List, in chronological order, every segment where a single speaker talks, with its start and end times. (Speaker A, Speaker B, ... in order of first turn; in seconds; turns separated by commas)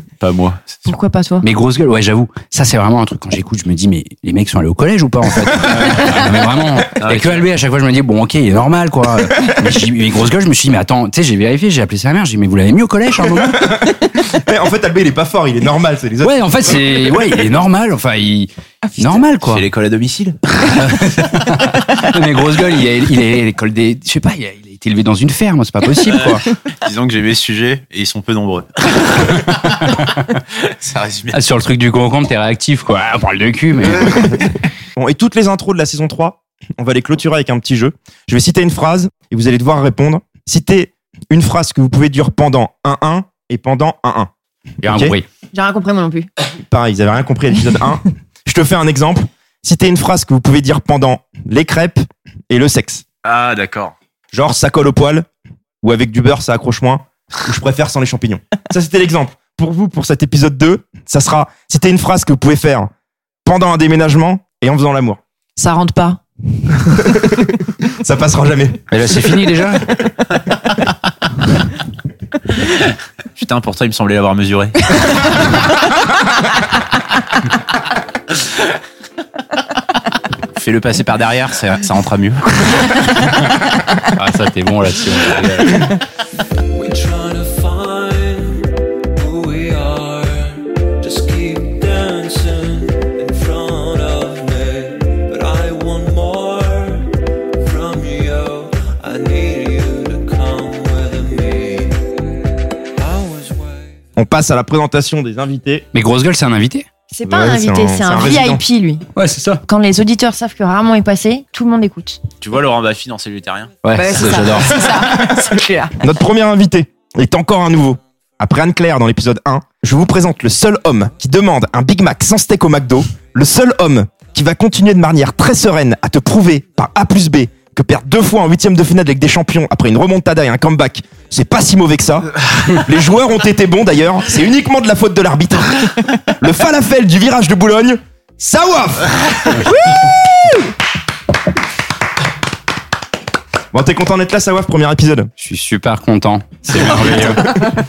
Speaker A: 0.2-0.9, Speaker B: 0.9-1.5, Speaker C: 1.4-13.7, Speaker A: 5.7-6.2, Speaker A: 7.0-7.5, Speaker D: 13.6-16.8, Speaker C: 16.2-19.6, Speaker B: 18.8-19.2, Speaker A: 19.4-20.5, Speaker C: 20.8-26.4, Speaker A: 26.1-29.6, Speaker A: 30.6-31.4, Speaker C: 31.3-34.4, Speaker D: 35.0-44.3, Speaker C: 44.8-45.3, Speaker D: 44.8-45.1, Speaker B: 45.5-46.3, Speaker D: 46.7-53.0, Speaker A: 53.2-53.9, Speaker D: 54.3-55.3, Speaker D: 55.8-62.9, Speaker D: 63.5-65.2, Speaker B: 65.6-66.2, Speaker D: 67.0-67.3, Speaker D: 67.8-68.9, Speaker C: 68.9-69.9, Speaker A: 73.4-75.3, Speaker A: 80.5-82.9, Speaker C: 84.2-85.9, Speaker E: 86.7-102.0, Speaker E: 103.0-103.9, Speaker D: 104.2-105.9, Speaker C: 105.9-106.9, Speaker B: 107.1-109.1, Speaker D: 107.3-108.6, Speaker C: 109.2-109.6, Speaker B: 109.7-112.2, Speaker A: 112.4-113.8, Speaker C: 113.8-115.3, Speaker B: 114.0-116.0, Speaker D: 116.0-139.7, Speaker B: 139.7-140.7, Speaker D: 143.7-145.3, Speaker C: 145.4-147.5, Speaker D: 146.8-147.3